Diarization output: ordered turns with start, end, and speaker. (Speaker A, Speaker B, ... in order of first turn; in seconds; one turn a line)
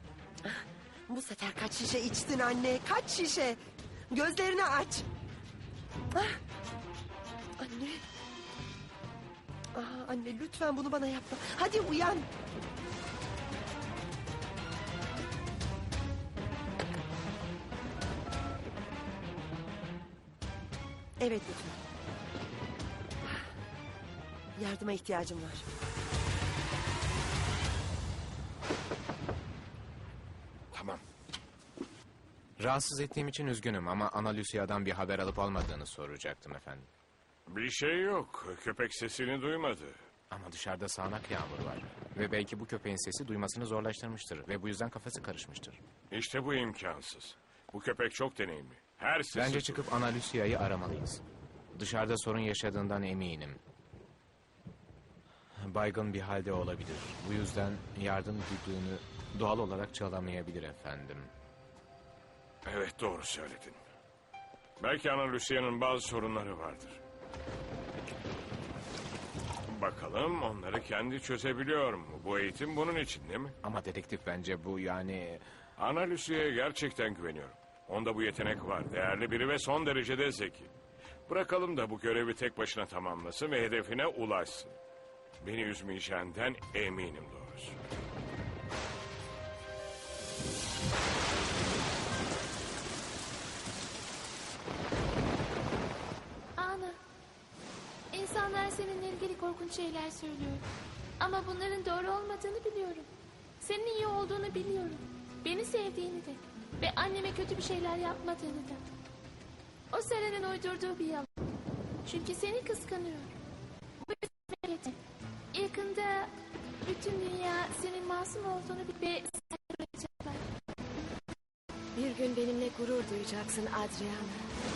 Speaker A: 0.5-3.6
Speaker A: 4.1-5.1
Speaker A: 6.1-6.4
Speaker A: 7.6-8.0
Speaker A: 9.7-12.3
Speaker A: 21.2-21.8
Speaker A: 24.6-25.6
Speaker B: 30.7-31.0
Speaker C: 32.6-36.9
Speaker B: 37.5-40.0
Speaker C: 40.3-45.8
Speaker B: 46.1-49.8
Speaker C: 49.3-51.2
Speaker C: 51.8-53.6
Speaker C: 55.6-61.3
Speaker B: 62.7-63.8
Speaker B: 64.8-67.0
Speaker B: 69.7-73.5
Speaker C: 73.6-75.4
Speaker B: 75.8-80.7
Speaker B: 81.3-84.8
Speaker B: 85.4-87.8
Speaker D: 96.5-97.0
Speaker D: 98.1-100.6
Speaker D: 101.2-103.1
Speaker D: 103.6-108.8
Speaker D: 109.9-111.3
Speaker D: 112.0-113.4
Speaker D: 114.0-115.0
Speaker D: 115.5-120.4
Speaker E: 121.9-124.5